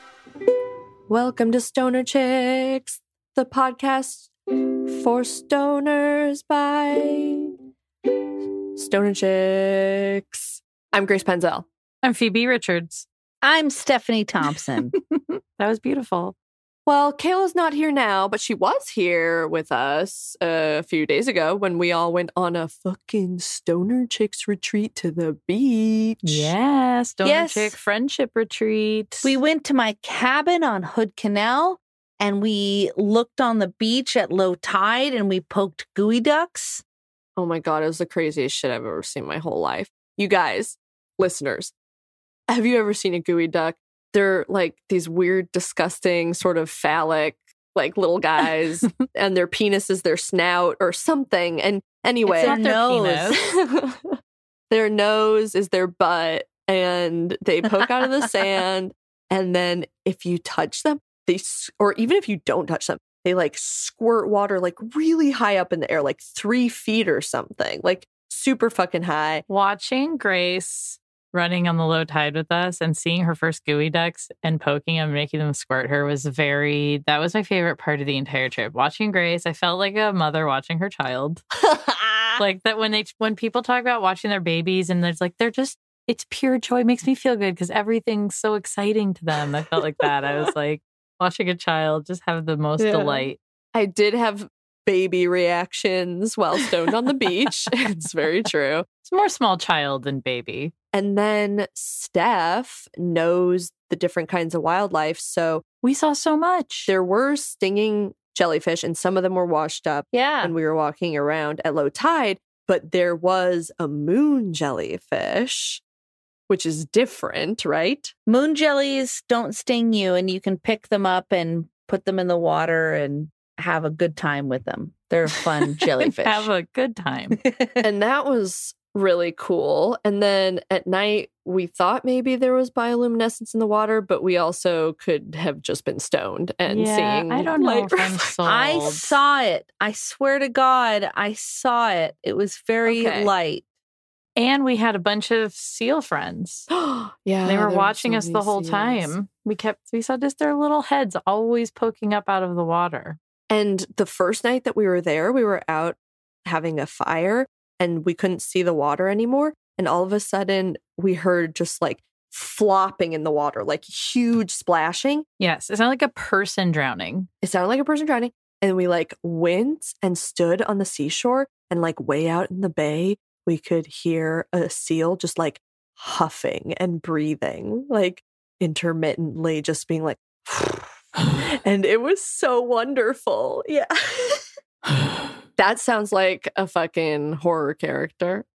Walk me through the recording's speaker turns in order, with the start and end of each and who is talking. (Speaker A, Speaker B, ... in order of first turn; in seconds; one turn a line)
Speaker A: 1.1-4.3
Speaker A: 4.8-7.5
Speaker A: 8.7-11.7
Speaker B: 12.0-13.1
Speaker C: 13.4-14.9
Speaker B: 14.9-16.3
Speaker A: 16.9-26.5
Speaker B: 26.2-29.4
Speaker C: 27.2-27.7
Speaker C: 29.2-36.8
Speaker A: 37.4-41.7
Speaker A: 42.5-52.6
Speaker C: 52.3-53.4
Speaker B: 52.3-53.4
Speaker A: 53.3-54.2
Speaker A: 54.7-69.4
Speaker B: 69.5-81.4
Speaker A: 81.7-82.3
Speaker B: 82.4-93.4
Speaker A: 92.8-98.8
Speaker B: 99.0-100.7
Speaker A: 100.9-105.6
Speaker B: 105.8-106.9
Speaker A: 106.8-115.8
Speaker C: 110.1-110.5
Speaker A: 116.5-118.1
Speaker C: 118.3-126.5
Speaker B: 126.0-127.4
Speaker C: 127.4-127.8
Speaker A: 127.8-138.9
Speaker B: 136.7-139.2
Speaker C: 138.4-143.6
Speaker A: 142.8-143.3
Speaker B: 144.3-146.7
Speaker A: 146.7-149.1
Speaker B: 147.4-153.2
Speaker A: 153.5-165.2
Speaker B: 165.4-167.3
Speaker A: 167.4-184.4
Speaker A: 185.6-188.4